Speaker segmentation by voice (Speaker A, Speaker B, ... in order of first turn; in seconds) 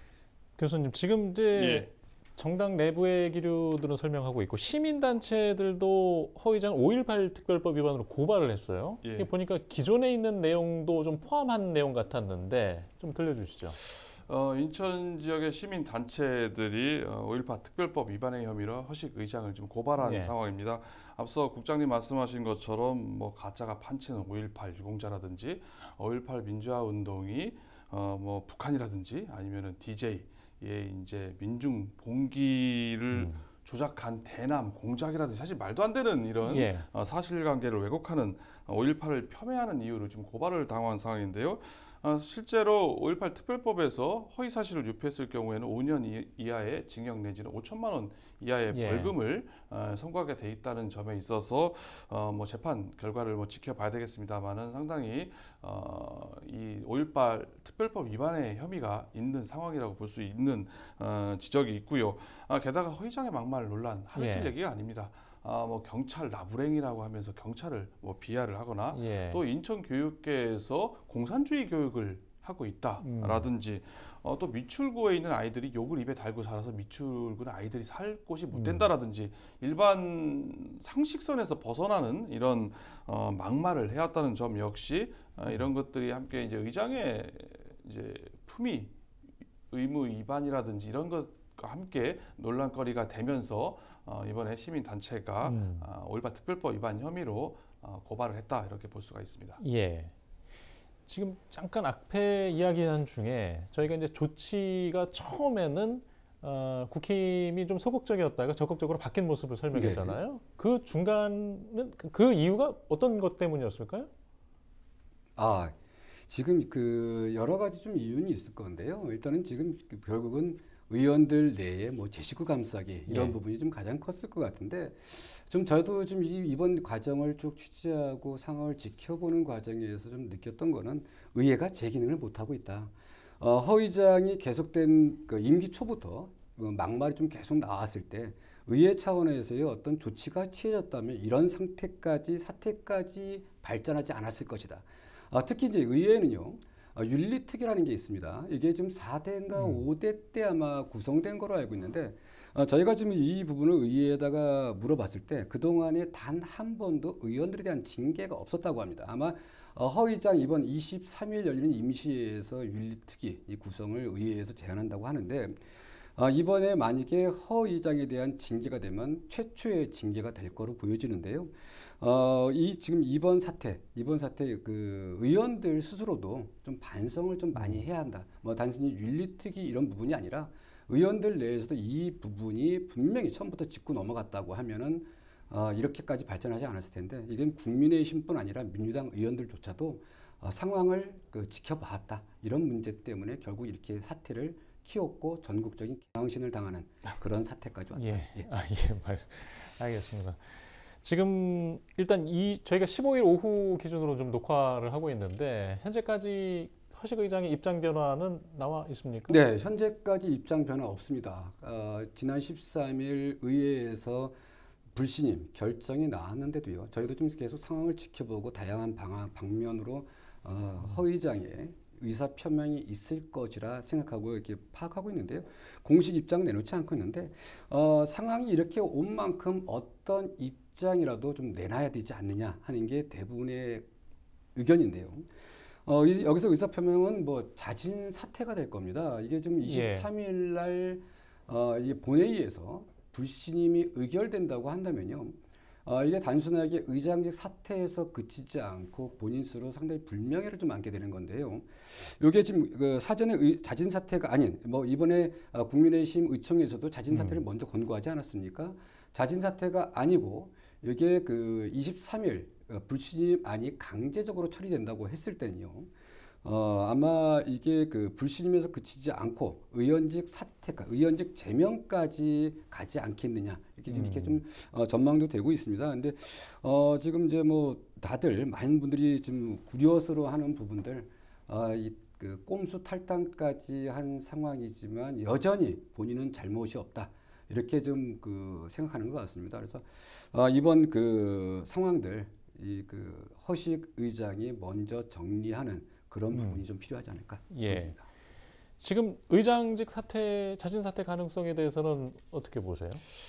Speaker A: 0.6-13.8, 20.0-20.3, 33.1-33.4, 36.4-36.9, 48.7-49.1, 64.1-64.5, 68.9-69.4, 73.0-73.5, 78.5-78.9, 85.4-85.7, 95.4-95.9, 99.6-100.1, 101.1-114.1, 123.1-123.3, 149.5-149.8, 177.5-177.8, 197.9-209.4, 239.6-240.1, 257.1-257.4, 273.9-274.4, 296.3-296.6, 297.5-298.0, 298.8-303.0
Speaker B: 1.5-1.9, 9.0-9.3, 14.1-88.9, 89.7-99.6
Speaker C: 109.7-110.2, 115.3-115.7, 116.3-165.6, 166.2-198.5, 209.3-214.3, 214.9-233.8, 234.5-235.3, 235.8-265.9, 266.4-298.0